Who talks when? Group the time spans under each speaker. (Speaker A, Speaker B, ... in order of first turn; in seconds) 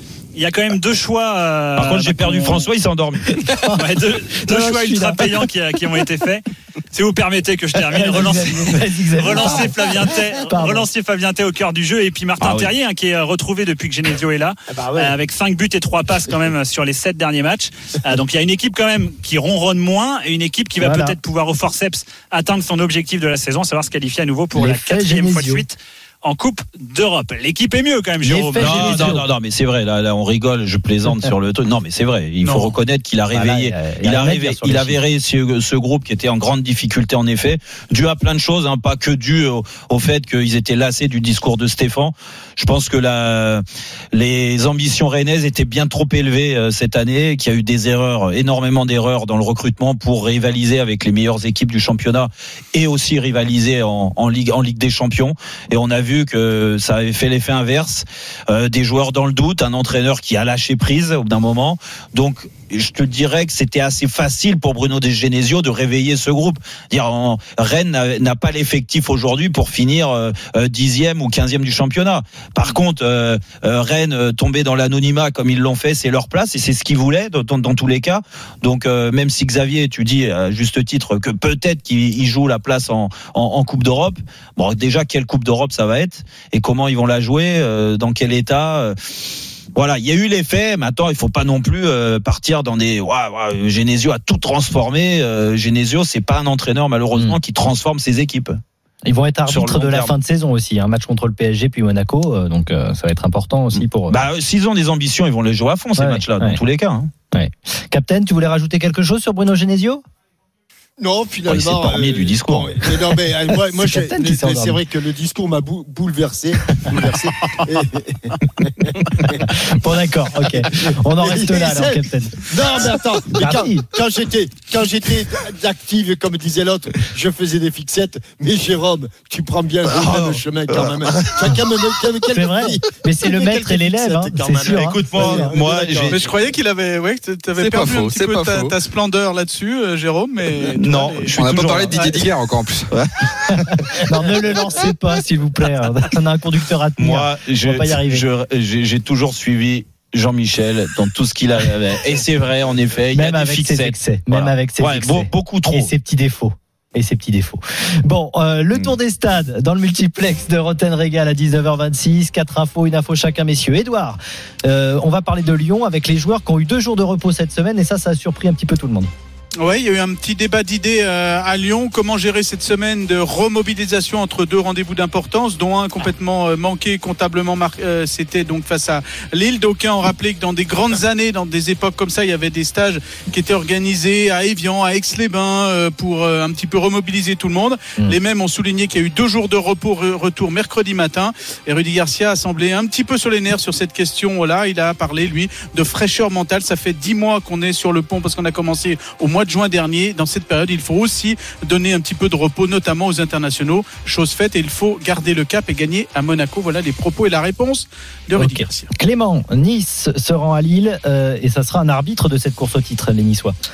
Speaker A: 0.3-2.7, 3.7-29.1
Speaker B: 1.8-3.4, 12.4-12.7, 28.2-89.0, 89.8-98.6, 99.5-100.1, 103.8-107.1, 111.5-112.8, 129.9-131.6, 134.7-136.2, 140.8-142.3, 147.0-155.9
Speaker C: 4.4-5.3, 7.9-10.9, 20.8-21.2, 24.6-25.6, 28.5-29.2, 33.3-35.0, 99.1-104.2, 106.0-106.6, 107.3-110.0, 113.8-114.8, 119.4-122.5, 123.3-123.9, 132.3-135.6, 143.5-148.2, 153.1-169.1, 208.4-213.6
Speaker D: 14.7-15.1, 111.0-119.6, 120.4-136.4
Speaker E: 136.1-142.2, 169.6-208.9
Speaker F: 137.6-138.8, 140.8-142.9